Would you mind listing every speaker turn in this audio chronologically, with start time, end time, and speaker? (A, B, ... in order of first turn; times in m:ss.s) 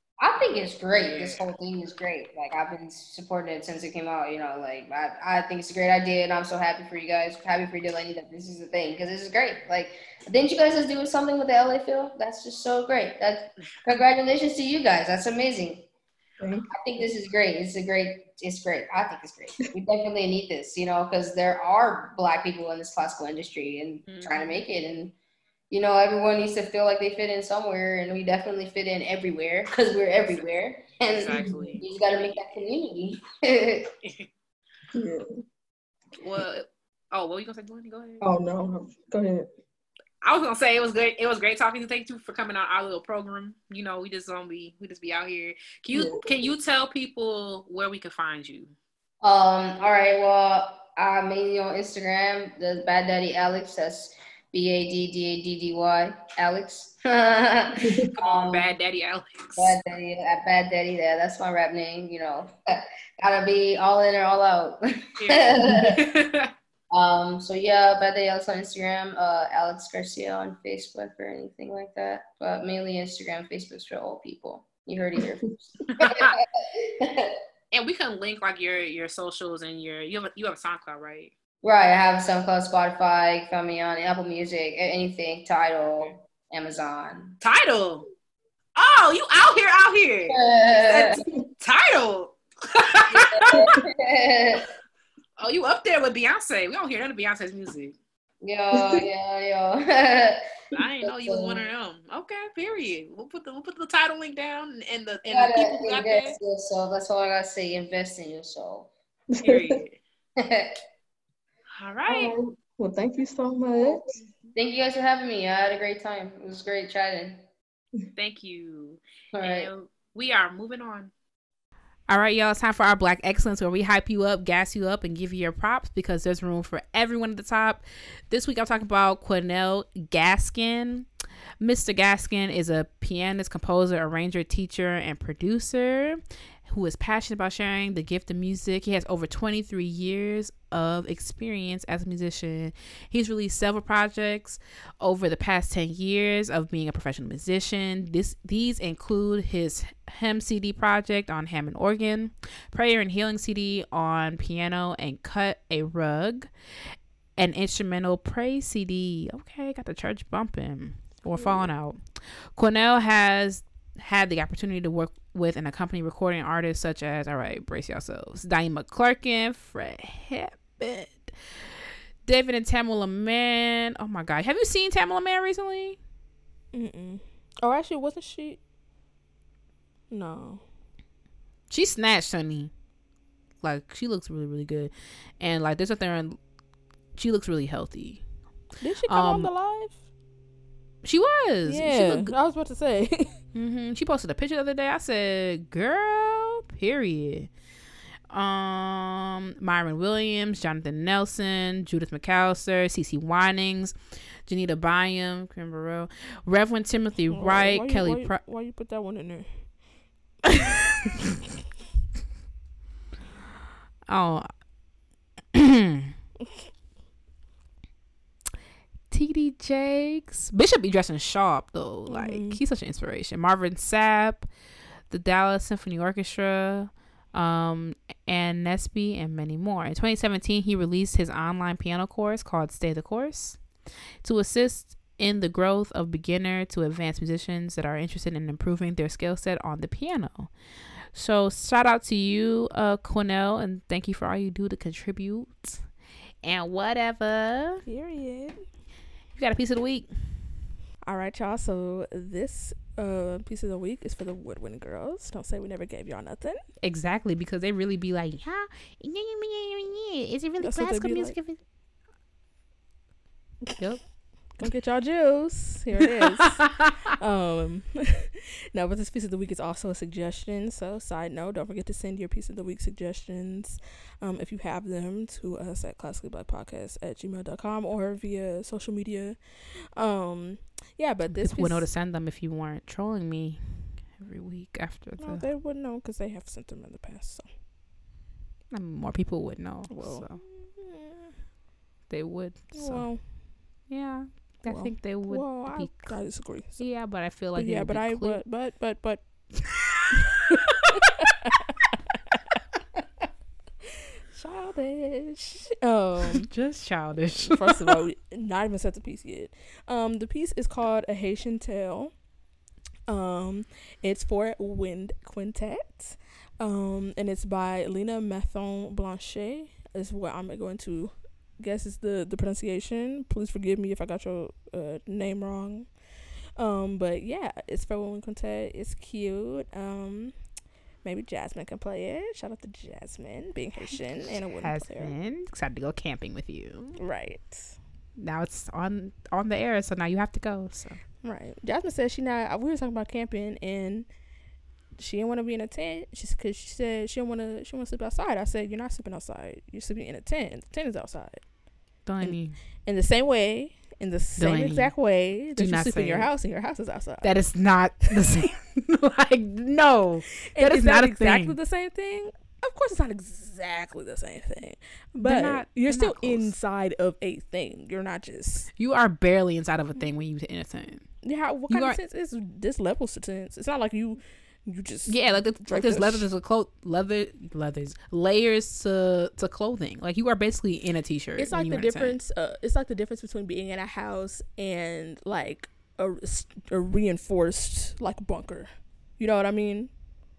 0:00.2-0:15.8 A
0:00.9-0:01.5 B
0:16.4-0:16.7 C
0:16.7-0:25.1 A
0:24.1-0:24.6 B
0:25.7-0:33.9 A
0:31.1-0:32.5 B
0:34.0-0:34.3 B
0:34.9-0:35.4 C
0:36.2-0:38.2 B
0:38.2-0:39.5 C
0:40.2-0:48.7 B
0:45.9-0:46.2 C
0:49.2-0:58.7 A
0:58.2-0:59.8 B
0:59.6-1:06.0 A
1:05.2-1:06.5 B
1:06.9-1:17.3 A
1:15.9-1:16.4 B
1:17.7-1:21.3 B
1:21.6-1:27.4 A
1:27.4-1:28.1 B
1:28.8-1:33.7 B
1:30.3-1:31.2 A
1:33.1-1:34.6 A
1:35.4-1:38.0 B
1:38.4-1:40.4 A
1:38.7-1:39.0 C
1:40.7-1:46.4 B
1:41.0-1:41.6 A
1:45.3-1:48.9 A
1:49.3-1:49.8 C
1:49.4-1:50.0 B
1:50.4-1:50.7 A
1:51.8-1:52.4 B
1:52.0-1:54.2 C
1:54.5-1:57.4 A
1:58.2-2:01.1 B
1:59.3-1:59.7 A
2:02.1-2:11.1 B
2:11.6-2:36.5 B
2:37.4-2:51.3 B
2:52.2-2:56.0 B
2:56.7-2:58.6 D
3:00.1-3:00.6 D
3:01.7-3:02.7 B
3:03.6-3:06.4 B
3:07.1-3:08.2 B
3:08.8-3:10.0 D
3:09.1-3:09.5 B
3:11.0-3:12.3 B
3:11.6-3:13.4 D
3:13.5-3:17.5 B
3:18.3-3:28.3 B
3:27.3-3:29.8 D
3:34.1-3:34.6 B
3:39.1-3:44.5 B
3:42.1-3:42.6 D
3:45.1-4:00.5 B
4:01.1-4:05.9 B
4:06.4-4:07.8 B
4:07.8-4:08.7 D
4:09.3-4:10.6 B
4:11.0-4:16.7 D
4:16.8-4:21.6 B
4:20.6-4:21.4 D
4:23.8-4:24.5 B
4:24.5-4:41.9 D
4:41.3-4:45.5 B
4:45.2-4:47.5 D
4:48.7-4:50.4 B
4:49.9-4:51.3 D
4:52.1-4:58.4 B
4:52.7-4:53.4 D
4:54.6-4:59.9 D
5:04.3-5:06.5 D
5:06.5-5:07.8 B
5:07.3-5:12.3 D
5:13.1-5:35.2 D
5:34.6-5:37.0 B
5:37.0-5:37.8 D
5:38.2-5:41.0 B
5:41.2-5:44.2 D
5:44.9-5:51.6 D
5:52.0-5:52.6 B
5:52.6-5:58.2 D
5:54.4-5:56.3 B
5:57.2-6:01.6 B
6:00.5-6:08.7 D
6:05.2-6:06.6 B
6:08.8-6:12.0 B
6:11.2-6:16.3 D
6:15.0-6:22.2 B
6:21.4-6:29.9 D